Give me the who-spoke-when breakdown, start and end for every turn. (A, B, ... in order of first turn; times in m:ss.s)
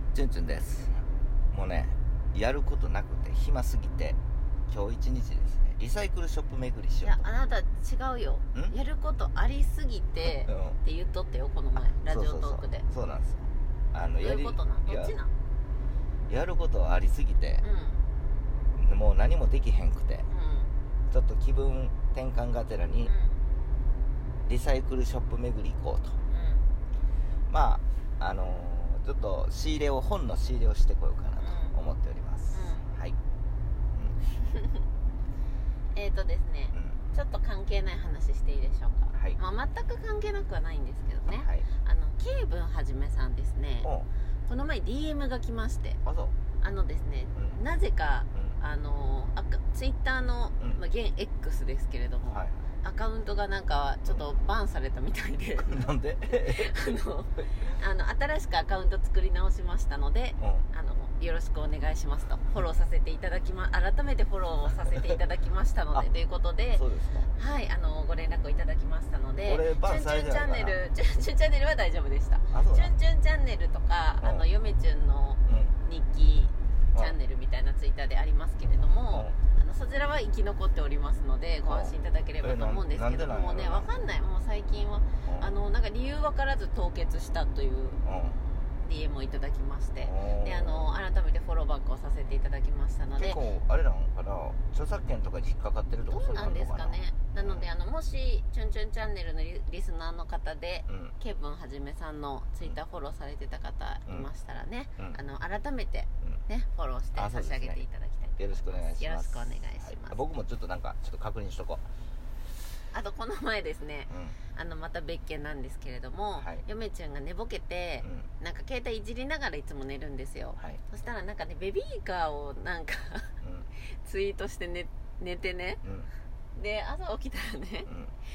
0:00.1-0:01.0 A
0:01.5-0:04.2 A
0:04.7-0:07.2 A
0:07.0-0:12.8 B
0:10.2-0:10.8 A
0:11.9-0:15.2 A
0:14.2-0:15.3 B
0:16.3-0:17.6 A
0:17.6-0:18.0 B
0:18.7-0:20.3 A
0:20.3-0:20.7 B
0:21.1-0:23.1 A
0:23.0-0:23.4 B
0:24.5-0:26.2 A
0:26.3-0:26.7 B
0:27.5-0:33.2 A
0:31.4-0:31.8 B
0:32.5-0:32.8 B
0:34.4-0:34.8 B
0:35.9-0:43.9 B
0:39.1-0:39.4 A
0:41.3-0:41.7 A
0:43.8-0:44.1 A
0:44.5-0:46.0 B
0:46.0-0:46.3 A
0:46.6-1:28.0 B
0:52.3-0:52.6 A
0:55.7-0:56.7 A
1:00.4-1:00.6 A
1:06.7-1:07.3 A
1:09.4-1:10.8 A
1:12.5-1:12.9 A
1:14.2-1:14.5 A
1:15.5-1:15.7 A
1:19.1-1:19.4 A
1:21.6-1:23.9 A
1:25.2-1:25.5 A
1:28.0-1:28.4 A
1:28.8-1:33.4 B
1:30.0-1:30.9 A
1:33.2-1:37.7 A
1:36.1-1:50.2 B
1:40.9-1:41.2 A
1:47.2-1:47.8 A
1:48.4-1:51.8 A
1:52.9-2:03.3 B
1:54.1-1:54.4 A
1:56.4-1:56.6 A
2:03.4-2:03.7 A
2:03.9-2:05.8 B
2:05.8-2:06.1 A
2:06.5-2:07.9 B